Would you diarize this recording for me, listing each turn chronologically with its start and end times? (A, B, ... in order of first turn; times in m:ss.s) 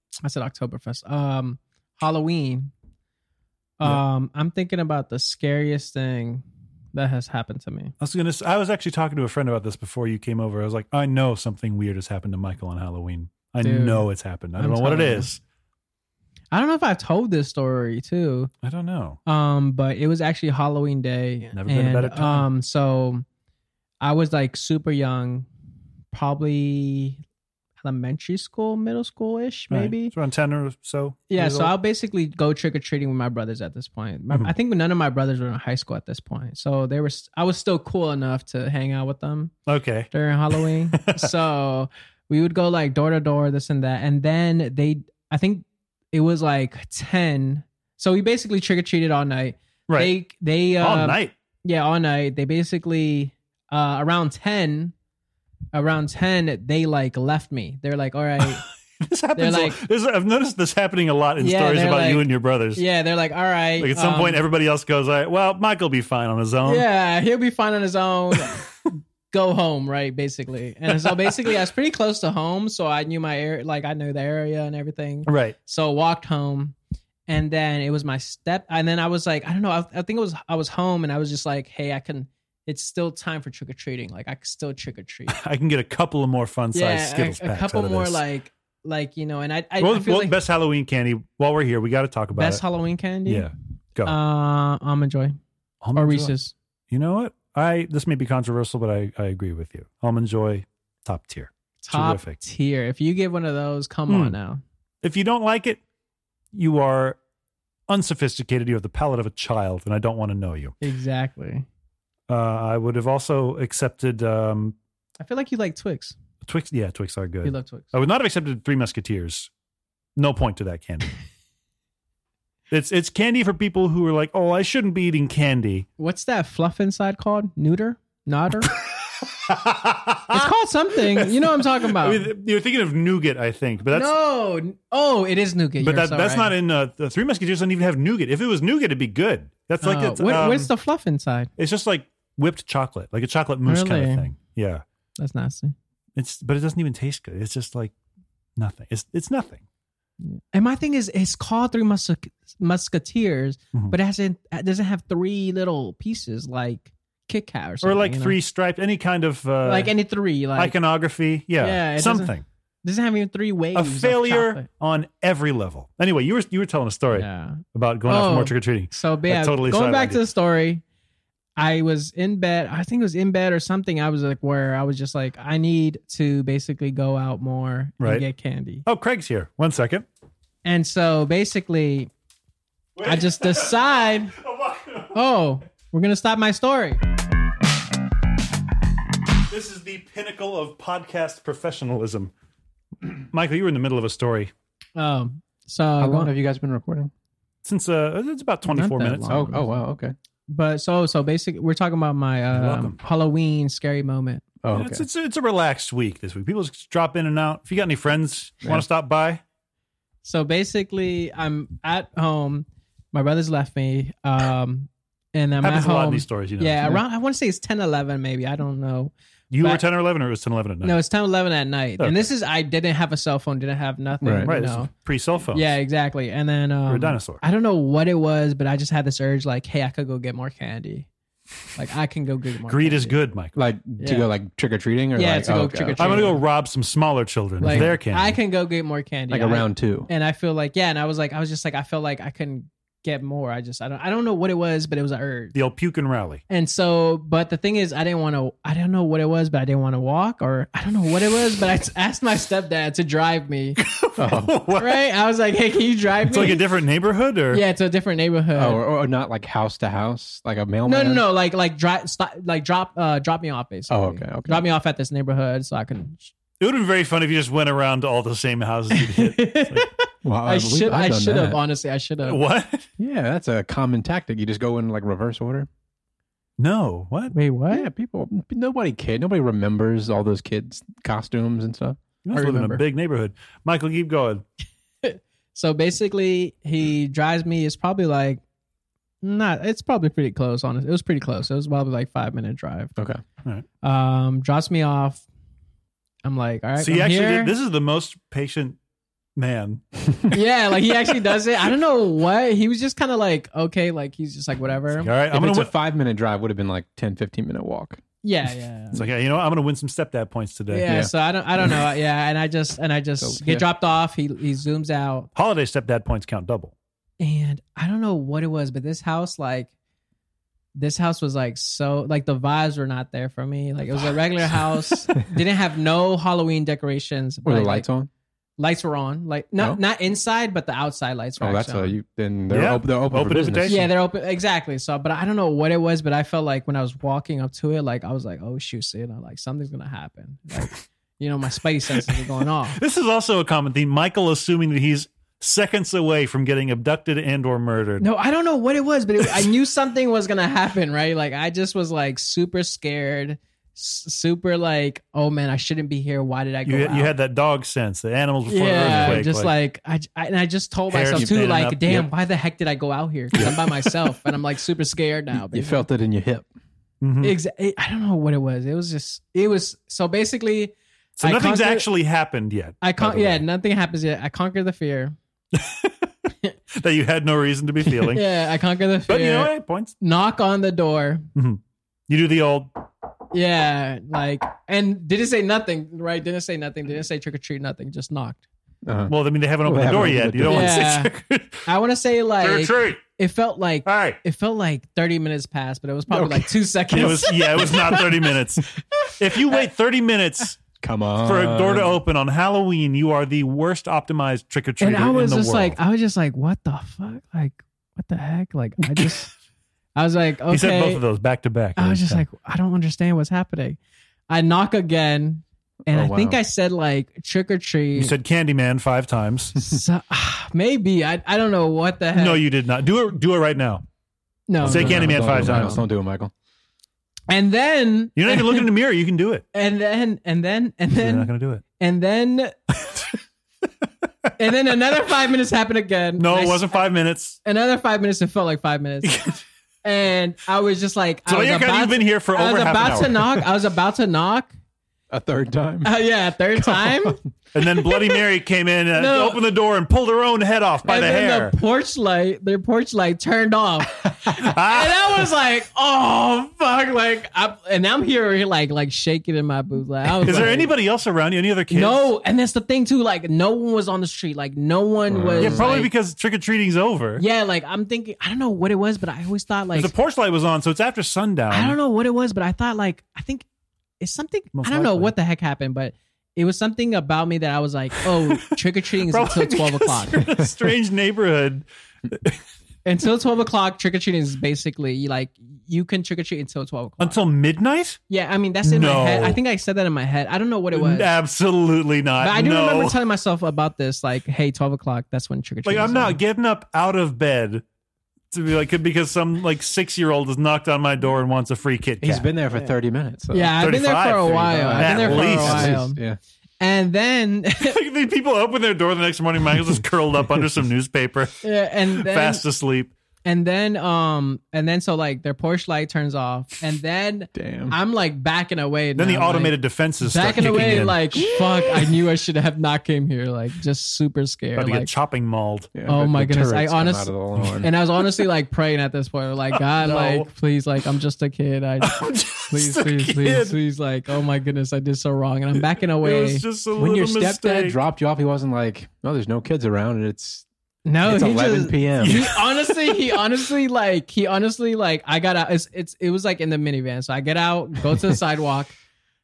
0:00.2-0:02.7 A
0:03.8-0:07.9 A
0:08.0-0:15.4 B
0:13.6-0:14.1 A
0:14.6-0:15.3 A
0:16.5-0:18.5 A
0:18.6-0:19.2 B
0:19.3-0:23.2 A
0:21.5-0:22.5 B
0:24.0-0:25.5 A
0:26.1-0:27.2 A
0:27.8-0:30.1 A
0:29.7-0:31.7 B
0:31.3-0:39.5 A
0:39.7-0:40.1 B
0:40.1-0:54.9 A
0:41.0-0:41.3 B
0:50.8-0:51.3 B
0:55.7-0:58.6 A
0:58.4-1:02.8 B
0:59.4-0:59.8 A
1:01.4-1:04.4 A
1:03.8-1:06.8 B
1:06.6-1:08.7 A
1:09.3-1:16.8 A
1:10.9-1:11.5 B
1:15.3-1:15.6 B
1:17.3-1:25.4 A
1:25.3-1:28.2 B
1:26.7-1:30.4 A
1:29.8-1:32.6 B
1:32.4-1:33.5 A
1:33.3-1:34.2 B
1:34.0-1:35.4 A
1:35.8-1:36.3 B
1:36.0-1:36.5 A
1:36.9-1:42.4 B
1:41.8-1:44.6 A
1:44.1-1:44.4 B
1:45.0-1:45.8 B
1:46.5-1:47.2 B
1:47.9-1:50.8 B
1:50.8-1:51.7 A
1:52.3-1:54.8 B
1:55.2-1:56.2 A
1:56.4-1:59.5 B
1:57.4-1:57.9 A
2:00.2-2:01.1 B
2:02.7-2:05.9 B
2:06.0-2:08.7 A
2:08.9-2:10.5 B
2:10.3-2:12.3 A
2:11.1-2:14.1 B
2:13.9-2:16.5 A
2:15.8-2:20.7 B
2:19.8-2:21.5 A
2:21.6-2:24.8 B
2:23.7-2:24.3 A
2:25.2-2:25.7 A
2:26.2-2:27.9 B
2:28.6-2:29.6 B
2:30.2-2:38.4 A
2:37.8-2:39.9 B
2:39.6-2:40.8 A
2:40.6-2:42.4 B
2:41.6-2:44.6 A
2:43.7-2:50.2 B
2:47.1-2:50.8 A
2:51.6-2:58.8 A
2:58.0-2:58.3 B
2:58.8-3:00.1 B
3:00.6-3:02.1 A
3:03.0-3:05.2 B
3:03.0-3:04.4 A
3:05.1-3:07.0 A
3:09.5-3:12.3 B
3:13.1-3:14.5 B
3:15.0-3:16.3 A
3:16.0-3:17.1 C
3:17.6-3:19.5 B
3:18.7-3:19.7 A
3:19.3-3:20.2 C
3:20.5-3:24.5 A
3:22.5-3:23.0 B
3:24.6-3:25.0 C
3:24.7-3:29.4 B
3:30.2-3:39.8 A
3:35.6-3:36.9 B
3:39.5-3:41.0 B
3:40.8-3:44.9 A
3:42.0-3:42.3 B
3:44.2-3:44.6 C
3:44.4-3:45.7 B
3:45.5-3:51.1 A
3:46.9-3:47.4 B
3:51.8-3:53.2 A
3:52.7-3:53.6 B
3:53.6-3:56.3 C
3:54.0-3:54.3 A
3:55.2-3:56.4 A
3:56.0-3:58.4 B
3:57.6-4:05.6 A
3:57.6-3:57.9 C
3:59.3-4:00.1 C
4:05.5-4:06.4 B
4:06.5-4:13.8 A
4:13.8-4:15.0 B
4:14.2-4:14.6 C
4:14.8-4:16.6 A
4:16.3-4:17.6 B
4:17.5-4:18.8 A
4:18.6-4:21.2 C
4:20.9-4:26.3 A
4:23.9-4:24.7 C
4:26.6-4:29.9 B
4:28.9-4:32.4 A
4:30.2-4:31.6 C
4:32.2-4:32.9 B
4:33.0-4:35.7 C
4:36.6-4:37.3 B
4:37.3-4:37.9 A
4:37.7-4:42.0 C
4:42.2-4:44.4 B
4:42.3-4:42.8 A
4:45.0-4:48.4 A
4:49.2-4:52.9 A
4:53.0-4:53.2 C
4:53.8-4:55.2 A
4:56.2-4:57.5 A
4:56.8-4:58.8 B
4:59.4-5:00.3 B
5:00.3-5:05.1 A
5:05.0-5:05.7 B
5:05.3-5:08.0 C
5:08.2-5:09.0 A
5:08.9-5:10.9 B
5:10.7-5:15.3 A
5:10.9-5:11.8 C
5:13.2-5:13.6 C
5:15.4-5:16.8 B
5:17.2-5:19.7 A
5:20.8-5:27.9 A
5:27.4-5:28.1 C
5:28.6-5:32.0 A
5:31.4-5:33.9 C
5:32.5-5:33.9 B
5:33.7-5:42.8 A
5:42.0-5:42.2 B
5:42.8-5:48.0 B
5:48.0-5:57.1 A
5:56.7-5:59.5 B
5:58.5-6:05.9 A
5:58.8-5:59.2 C
6:00.9-6:02.0 B
6:01.1-6:02.1 C
6:05.3-6:06.5 C
6:07.0-6:07.4 B
6:07.2-6:11.9 A
6:11.2-6:12.8 B
6:12.8-6:15.2 A
6:13.0-6:13.4 C
6:15.5-6:16.1 B
6:16.7-6:18.2 B
6:18.0-6:21.3 A
6:19.1-6:19.9 B
6:21.4-6:22.7 B
6:23.3-6:28.4 A
6:28.8-6:29.1 C
6:29.1-6:31.6 B
6:29.6-6:30.9 C
6:30.5-6:31.1 A
6:31.7-6:39.7 A
6:32.4-6:33.0 B
6:33.8-6:34.2 B
6:36.1-6:37.3 C
6:36.9-6:40.6 B
6:40.8-6:42.0 C
6:41.2-6:45.8 B
6:44.8-6:49.3 A
6:50.0-6:51.0 A
6:50.5-6:52.2 B
6:51.8-6:53.8 A
6:54.3-6:58.2 A
6:55.9-6:56.4 C
6:58.0-6:59.6 B
6:59.6-7:02.4 A
7:02.1-7:03.8 B
7:04.5-7:05.8 A
7:04.6-7:06.3 C
7:04.6-7:05.8 B
7:07.3-7:08.7 A
7:08.2-7:09.4 B
7:09.5-7:12.6 A
7:11.0-7:11.6 B
7:12.8-7:13.2 B
7:14.4-7:16.8 A
7:16.2-7:17.4 B
7:17.4-7:19.2 A
7:19.0-7:19.4 B
7:19.8-7:24.5 A
7:21.3-7:23.5 B
7:22.8-7:23.1 C
7:25.1-7:25.9 C
7:25.8-7:27.2 A
7:26.6-7:27.2 C
7:27.5-7:31.6 B
7:29.0-7:29.4 A
7:30.8-7:40.7 A
7:34.2-7:35.3 B
7:40.2-7:42.1 B
7:40.3-7:40.6 C
7:41.7-7:45.9 A
7:45.1-7:45.8 C
7:45.4-7:47.2 B
7:47.2-7:49.9 A
7:49.8-7:51.8 B
7:51.5-7:53.5 A
7:54.0-8:00.3 A
7:54.5-7:55.1 B
7:58.0-7:58.6 B
7:59.1-8:02.4 B
8:02.8-8:07.2 A
8:07.0-8:08.0 B
8:08.1-8:11.1 A
8:08.6-8:09.4 B
8:10.7-8:13.0 B
8:12.2-8:16.2 A
8:15.6-8:17.6 B
8:18.3-8:22.3 B
8:22.0-8:23.6 C
8:23.3-8:26.0 A
8:23.6-8:25.8 B
8:24.2-8:26.2 C
8:26.6-8:27.8 A
8:27.6-8:31.4 B
8:31.4-8:32.4 A
8:31.9-8:32.9 B
8:33.2-8:44.9 A
8:37.4-8:37.8 C
8:39.0-8:41.2 B
8:40.7-8:41.9 C
8:44.6-8:45.7 B
8:45.7-8:47.7 C
8:45.9-8:56.5 A
8:49.6-8:50.3 B
8:51.8-8:53.6 B
8:55.7-8:57.8 B
8:56.8-9:00.5 C
9:00.9-9:08.8 A
9:01.0-9:02.3 C
9:02.0-9:03.2 B